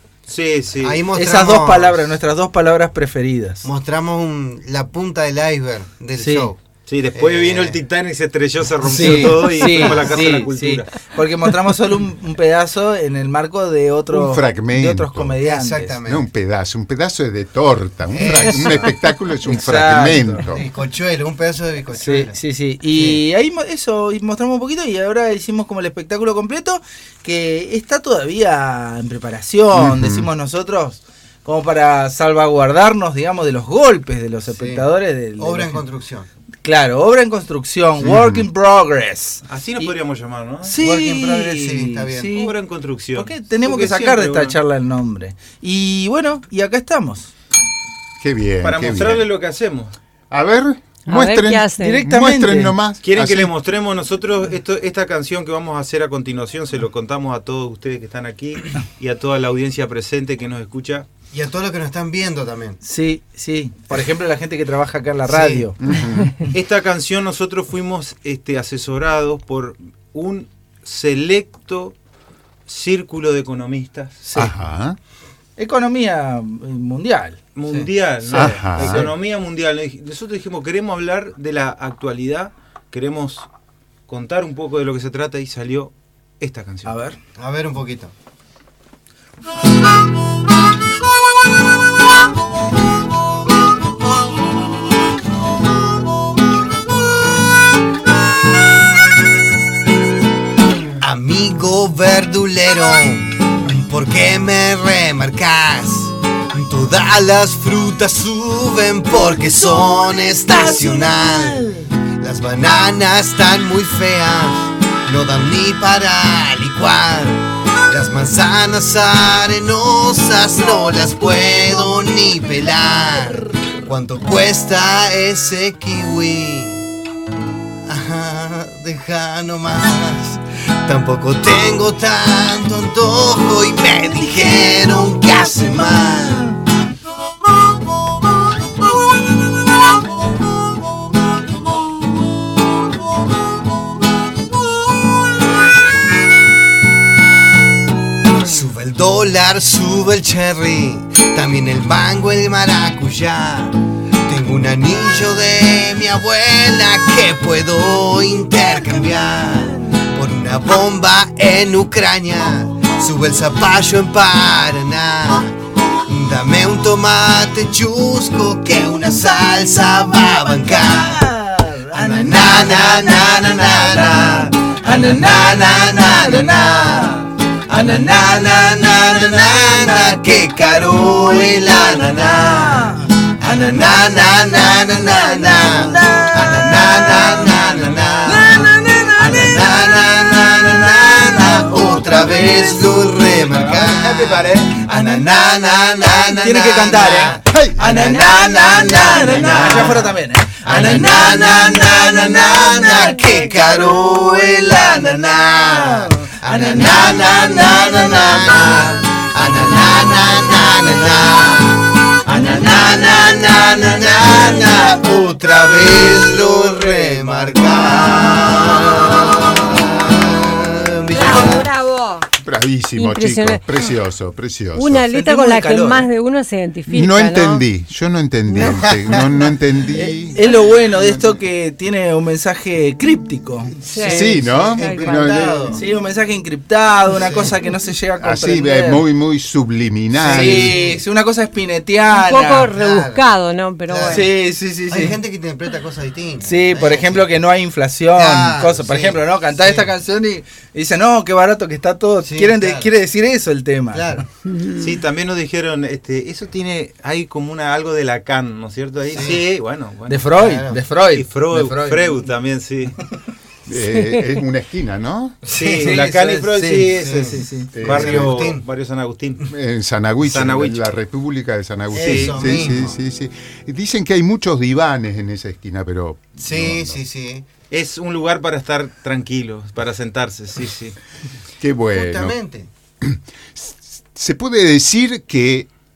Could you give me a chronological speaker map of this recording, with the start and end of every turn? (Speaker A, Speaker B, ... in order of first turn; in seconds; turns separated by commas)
Speaker A: 0.3-1.1, Speaker B: 0.8-2.1, Speaker C: 1.1-3.7, Speaker B: 3.6-6.6, Speaker C: 6.2-6.5, Speaker A: 6.9-11.0, Speaker B: 7.1-7.8, Speaker B: 8.8-10.4, Speaker C: 8.8-16.0, Speaker D: 14.1-15.3, Speaker B: 15.4-16.3, Speaker D: 16.1-20.6, Speaker B: 18.1-18.9, Speaker C: 18.2-20.4, Speaker B: 20.5-22.4, Speaker C: 21.9-35.8, Speaker B: 22.9-23.2, Speaker D: 29.8-30.2, Speaker B: 34.5-34.8, Speaker B: 35.4-36.3, Speaker C: 36.6-39.9, Speaker D: 38.0-38.5, Speaker A: 39.5-40.8, Speaker C: 40.6-42.6, Speaker B: 40.8-42.3, Speaker A: 42.3-44.6, Speaker C: 43.1-47.3, Speaker D: 48.2-49.2, Speaker A: 48.6-49.9, Speaker D: 50.3-53.5, Speaker E: 51.0-52.1, Speaker C: 51.8-52.7, Speaker A: 53.0-61.1, Speaker B: 61.3-62.8, Speaker C: 62.8-65.9, Speaker B: 65.3-65.7, Speaker D: 65.8-66.3, Speaker A: 66.5-72.0, Speaker A: 72.7-74.2, Speaker C: 74.2-74.5, Speaker D: 74.3-75.0, Speaker C: 75.6-77.4, Speaker A: 77.5-83.5, Speaker D: 78.3-79.0, Speaker C: 78.3-79.1, Speaker A: 84.1-87.0, Speaker C: 86.8-87.2, Speaker B: 87.4-88.1, Speaker B: 101.0-126.8, Speaker C: 109.6-111.9, Speaker B: 127.8-136.5, Speaker B: 148.3-171.2, Speaker C: 170.5-177.2, Speaker B: 171.9-177.2, Speaker C: 177.7-178.4, Speaker B: 177.7-188.7, Speaker C: 181.4-187.6, Speaker C: 188.3-189.4, Speaker A: 189.0-191.7, Speaker B: 189.3-200.1, Speaker C: 192.1-192.6, Speaker A: 193.3-194.8, Speaker C: 196.3-203.6, Speaker D: 197.5-197.8, Speaker A: 199.2-200.0, Speaker B: 200.6-221.7, Speaker A: 200.7-201.6, Speaker C: 204.3-209.0, Speaker C: 212.3-213.2, Speaker C: 216.6-217.5, Speaker E: 221.1-222.3, Speaker D: 222.4-225.0, Speaker E: 222.9-223.9, Speaker E: 224.7-227.7, Speaker C: 225.0-226.1, Speaker D: 226.9-230.5, Speaker E: 228.4-229.5, Speaker C: 229.9-234.5, Speaker E: 233.8-235.3, Speaker D: 234.1-235.6, Speaker B: 234.2-235.8, Speaker C: 235.6-239.0, Speaker B: 237.2-237.5, Speaker D: 238.2-240.8, Speaker C: 240.1-242.7, Speaker B: 240.2-241.0, Speaker E: 242.1-244.2, Speaker B: 242.6-243.2, Speaker B: 243.9-244.3, Speaker C: 244.0-245.2, Speaker B: 244.9-247.3, Speaker C: 246.4-254.2, Speaker B: 248.1-249.9, Speaker B: 252.2-252.9, Speaker B: 253.9-254.2, Speaker A: 254.7-260.3, Speaker B: 259.1-259.5, Speaker C: 260.1-262.3, Speaker B: 260.3-260.8, Speaker A: 261.1-263.0, Speaker D: 263.6-265.4, Speaker E: 263.9-264.4, Speaker B: 265.4-265.8, Speaker A: 265.5-269.5, Speaker C: 265.7-267.9, Speaker B: 266.9-268.6, Speaker D: 267.7-268.4, Speaker D: 269.5-277.0, Speaker A: 270.2-271.0, Speaker B: 271.9-273.0, Speaker A: 272.0-272.6, Speaker B: 276.4-277.4, Speaker A: 277.7-280.9, Speaker D: 281.6-282.4, Speaker B: 281.9-282.7, Speaker D: 283.0-285.7